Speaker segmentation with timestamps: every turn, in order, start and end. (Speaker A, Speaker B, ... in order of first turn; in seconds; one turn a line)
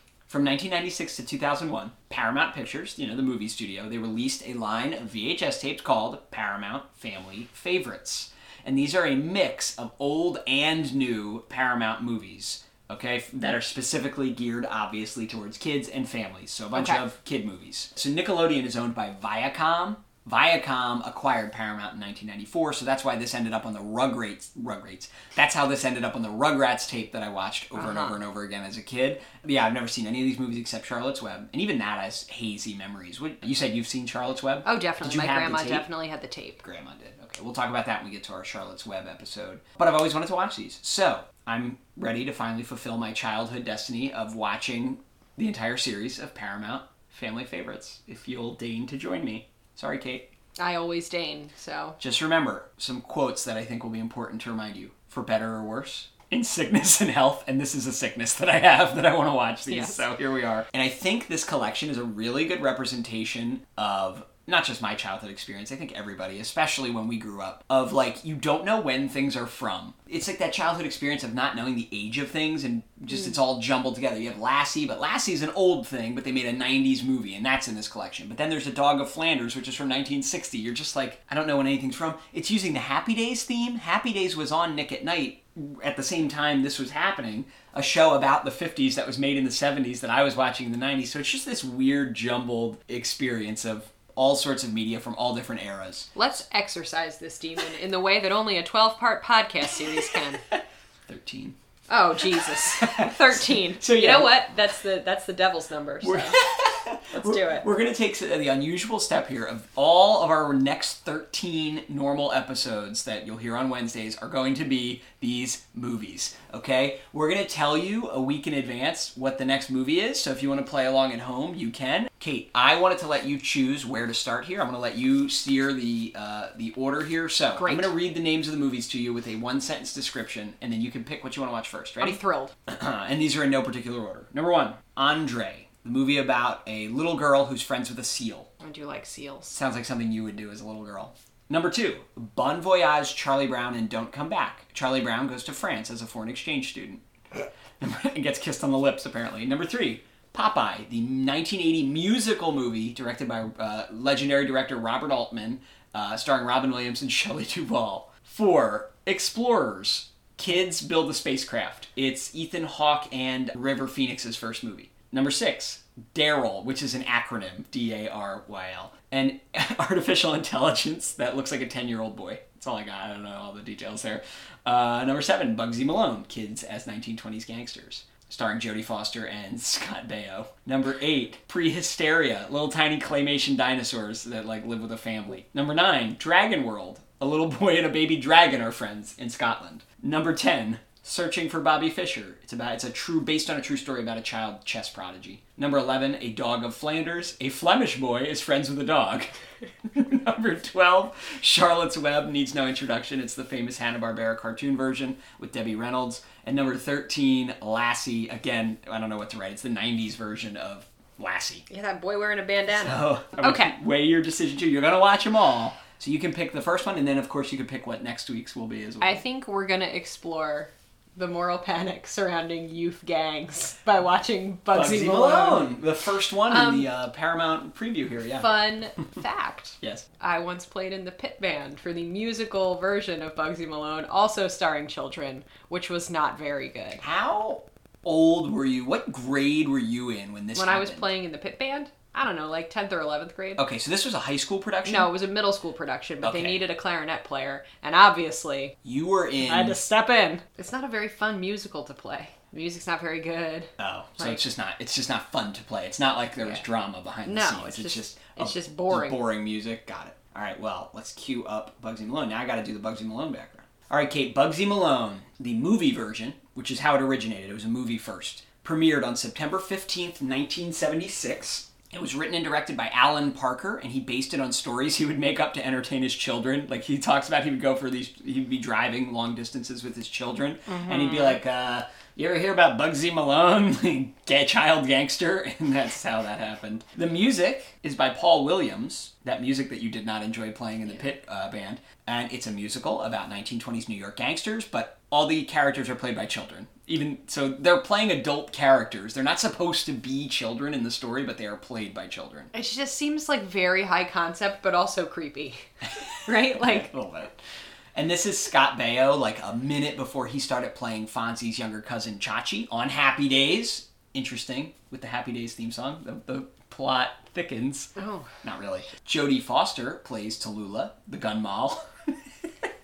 Speaker A: 0.3-35.9
Speaker B: 16.7-17.0
Speaker B: 27.7-28.2
Speaker B: 34.6-36.6
Speaker A: 36.6-50.3
Speaker B: 50.6-52.0
Speaker A: 52.0-96.1
Speaker B: 59.6-60.0
Speaker B: 96.1-100.4
Speaker A: 100.5-101.5
Speaker B: 101.9-106.5
Speaker A: 102.3-104.4
Speaker A: 106.0-138.5
Speaker B: 107.1-107.7
Speaker B: 127.5-127.9
Speaker B: 132.0-132.5
Speaker B: 138.6-139.6
Speaker A: 139.5-199.3
Speaker A: 199.9-211.7
Speaker B: 211.7-213.7
Speaker A: 212.7-219.2
Speaker B: 219.0-225.7
Speaker A: 224.7-228.5
Speaker B: 226.5-226.9
Speaker B: 228.4-237.0
Speaker A: 237.0-241.1
Speaker B: 240.5-243.6
Speaker A: 243.6-245.1
Speaker B: 244.8-248.7
Speaker A: 246.2-246.6
Speaker A: 248.8-249.8
Speaker B: 249.4-254.4
Speaker A: 253.8-302.5
Speaker B: 257.2-259.2
Speaker B: 280.7-281.4
Speaker B: 302.5-305.6
Speaker B: 306.2-306.9
Speaker A: 306.3-307.4
Speaker A: 307.9-317.9
Speaker B: 318.0-318.3
Speaker A: 318.4-321.9